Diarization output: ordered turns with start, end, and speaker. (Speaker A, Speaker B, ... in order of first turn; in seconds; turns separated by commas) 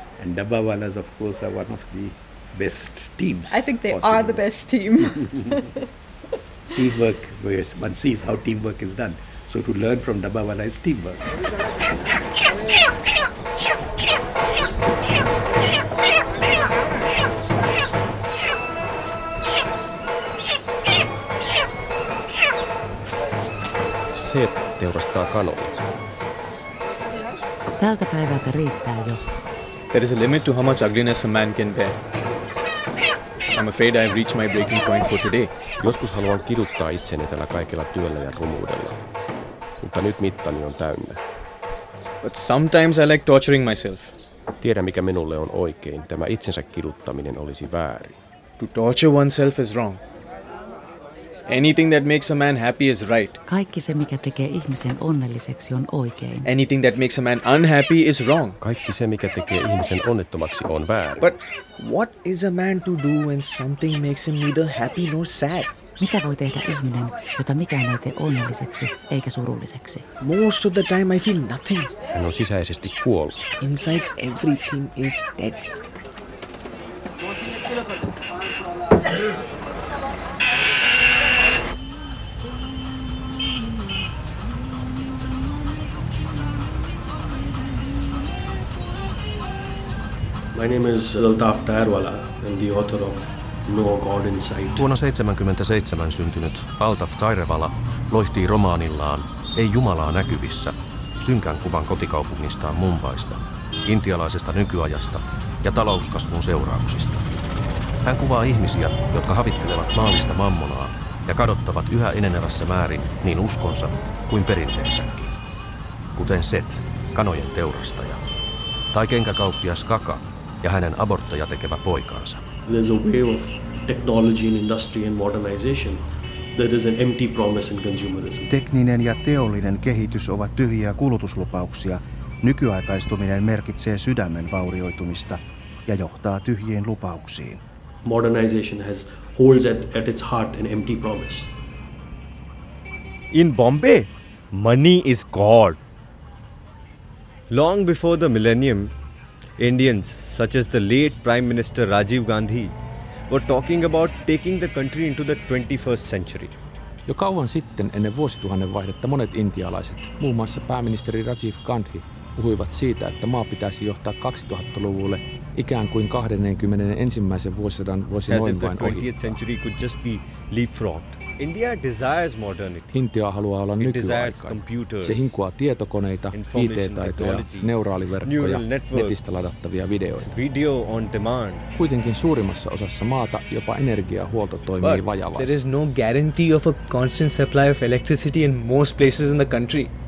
Speaker A: 0.2-4.5, Speaker B: 3.5-5.9, Speaker A: 6.8-11.2, Speaker C: 24.2-25.7, Speaker D: 27.8-29.2, Speaker E: 29.9-32.0, Speaker E: 33.5-35.6, Speaker C: 35.8-39.0, Speaker C: 39.8-41.2, Speaker E: 42.2-44.1, Speaker C: 44.6-48.2, Speaker E: 48.6-50.0, Speaker E: 51.5-53.4, Speaker D: 53.5-56.5, Speaker E: 56.4-58.6, Speaker C: 58.6-61.3, Speaker E: 61.2-65.9, Speaker D: 66.0-70.0, Speaker E: 70.2-71.9, Speaker C: 72.1-73.4, Speaker E: 73.6-75.7, Speaker F: 90.5-94.9, Speaker G: 94.8-107.3, Speaker G: 108.0-115.3, Speaker G: 116.2-118.2, Speaker G: 118.9-122.5, Speaker F: 122.7-126.0, Speaker F: 126.5-128.5, Speaker H: 128.5-137.6, Speaker F: 138.0-141.5, Speaker I: 143.3-145.8, Speaker I: 147.5-148.9, Speaker I: 149.6-152.8, Speaker I: 153.3-156.5, Speaker J: 157.1-169.4, Speaker I: 168.3-172.9, Speaker J: 172.9-180.3, Speaker I: 173.8-175.3, Speaker I: 176.3-179.2, Speaker I: 180.2-181.6, Speaker J: 181.8-185.6, Speaker E: 184.9-189.9